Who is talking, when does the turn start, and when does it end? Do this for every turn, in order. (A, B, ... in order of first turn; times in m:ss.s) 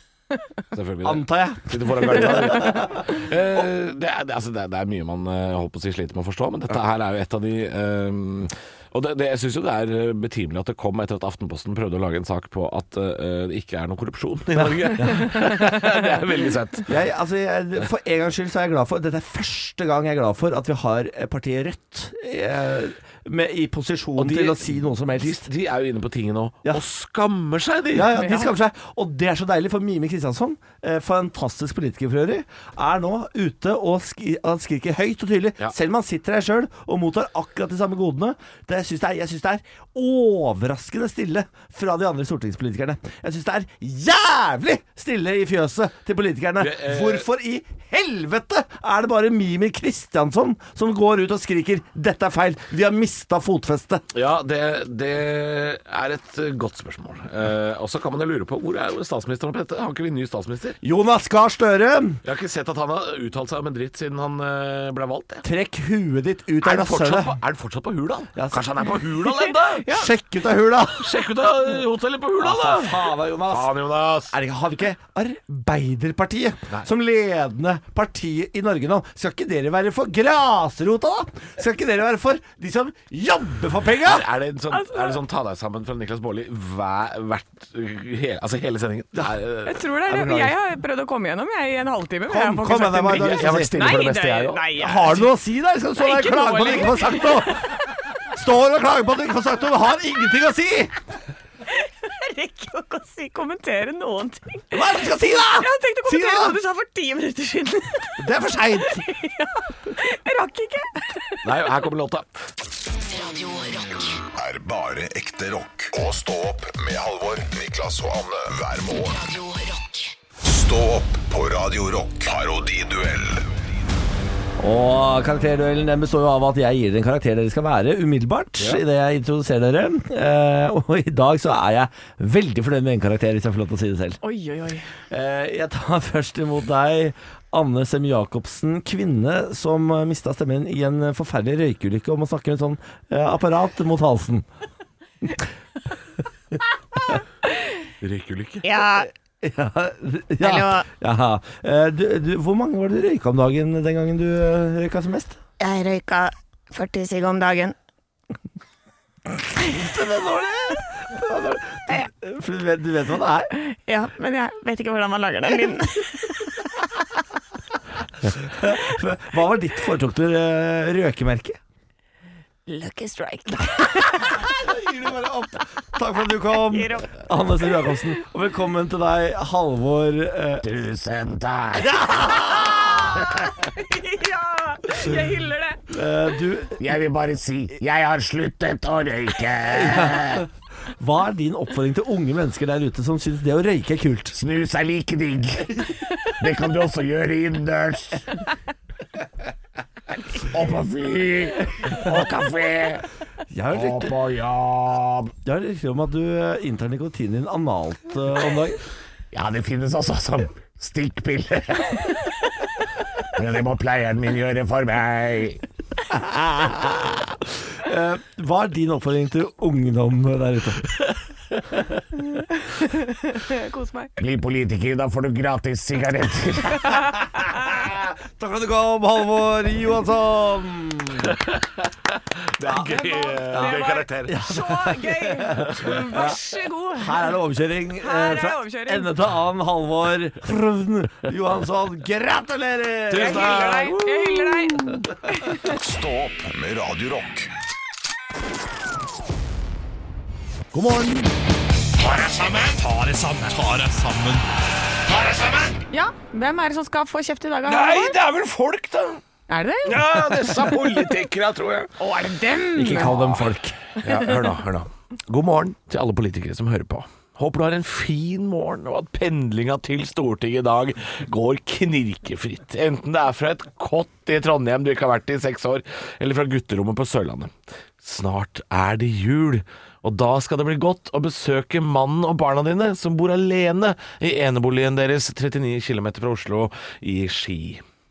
0:00.7-0:16.9 A
0:01.0-0:03.1 B
0:14.6-0:15.7 B
0:16.9-0:25.4 B
0:24.2-0:28.2 A
0:27.9-0:54.0 B
0:46.6-0:47.2 A
0:54.1-1:00.8 A
1:00.8-1:02.2 B
1:02.2-1:05.4 A
1:05.4-1:07.4 B
1:06.6-1:09.9 A
1:08.3-1:08.6 B
1:09.7-1:10.1 C
1:09.9-1:11.1 B
1:11.0-1:14.4 A
1:12.4-1:13.8 B
1:14.3-1:24.3 B
1:24.0-1:29.8 A
1:24.7-1:25.2 C
1:29.6-1:35.3 C
1:30.1-1:30.5 B
1:32.3-1:33.7 B
1:33.1-1:34.6 A
1:34.8-1:37.7 B
1:36.0-1:37.7 C
1:38.3-1:40.9 B
1:41.7-1:48.2 C
1:44.7-1:46.6 B
1:48.2-1:49.0 B
1:48.9-1:51.5 C
1:51.4-1:52.3 A
1:52.9-1:54.2 D
1:54.3-1:59.2 E
1:59.1-2:00.1 D
2:00.4-2:03.4 E
2:04.6-2:14.2 B
2:14.2-2:14.9 C
2:15.1-2:24.5 B
2:28.0-2:28.7 A
2:28.6-2:29.1 C
2:28.9-2:35.4 B
2:30.4-2:30.8 C
2:35.6-2:37.7 C
2:39.6-2:43.5 B
2:43.5-2:46.3 C
2:48.2-2:51.6 B
2:52.7-2:54.5 C
2:54.2-3:00.6 B
2:56.5-2:57.2 C
3:00.6-3:02.0 A
3:01.8-3:03.3 B
3:02.5-3:05.8 C
3:05.9-3:06.8 B
3:06.8-3:10.4 A
3:09.7-3:10.5 B
3:11.0-3:14.4 B
3:14.3-3:15.7 A
3:16.4-3:18.2 A
3:20.5-3:23.0 A
3:23.5-3:24.2 B
3:23.7-3:25.3 A
3:25.4-3:28.8 B
3:29.3-3:31.9 A
3:33.4-3:35.6 A
3:36.1-3:40.9 B
3:42.4-3:44.1 C
3:44.2-3:46.8 A
3:47.5-3:51.4 B
3:51.3-3:54.4 A
3:52.8-3:57.3 C
3:53.4-3:56.4 B
3:56.9-4:05.1 B
3:58.0-3:59.1 C
4:03.1-4:04.3 A
4:03.1-4:05.7 C
4:05.6-4:07.5 E
4:10.7-4:11.3 B
4:12.0-4:14.5 A
4:15.1-4:15.7 A
4:15.9-4:18.2 C
4:17.7-4:19.2 A
4:19.5-4:20.0 C
4:19.8-4:21.9 A
4:22.0-4:23.1 C
4:22.7-4:23.8 B
4:24.0-4:47.8 A